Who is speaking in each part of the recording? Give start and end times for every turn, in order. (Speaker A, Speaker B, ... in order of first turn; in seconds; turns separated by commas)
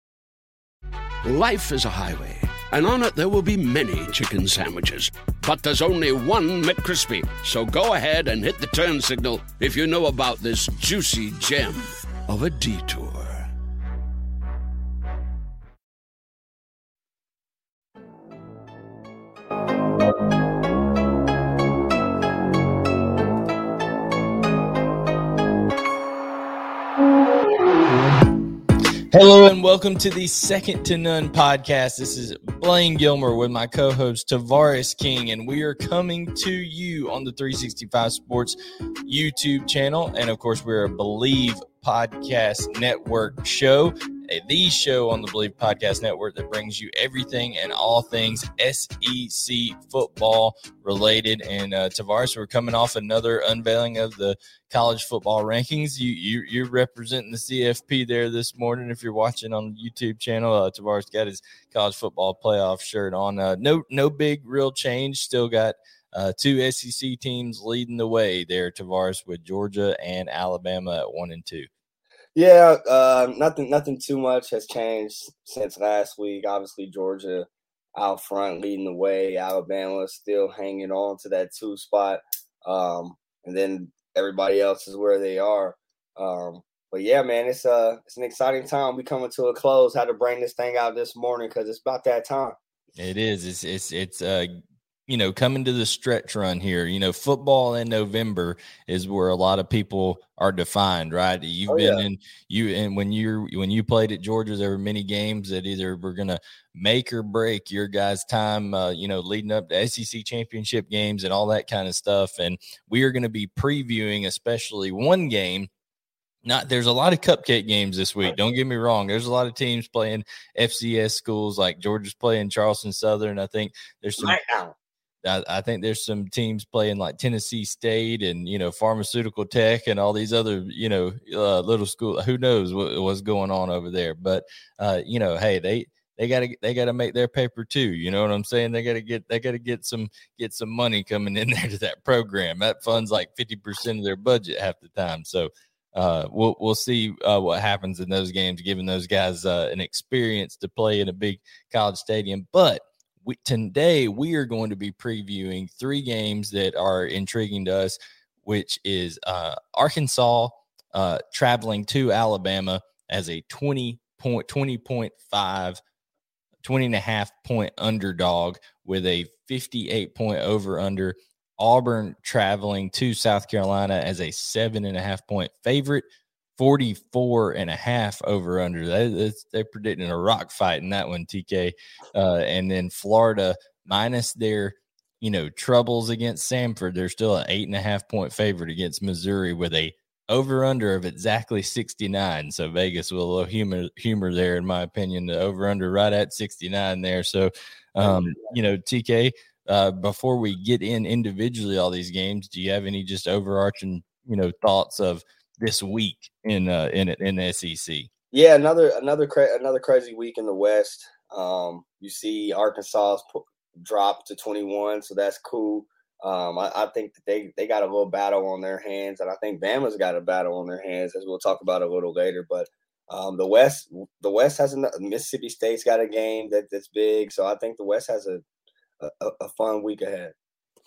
Speaker A: 1.2-13.5, Speaker B: 29.1-71.7, Speaker C: 72.3-92.5, Speaker B: 93.0-94.5, Speaker B: 95.1-115.7, Speaker C: 101.7-102.0, Speaker B: 116.4-124.4, Speaker C: 124.2-124.7, Speaker B: 125.2-165.8, Speaker B: 166.6-176.0, Speaker B: 176.6-208.1, Speaker C: 198.0-198.5, Speaker C: 208.3-228.4, Speaker C: 229.0-230.3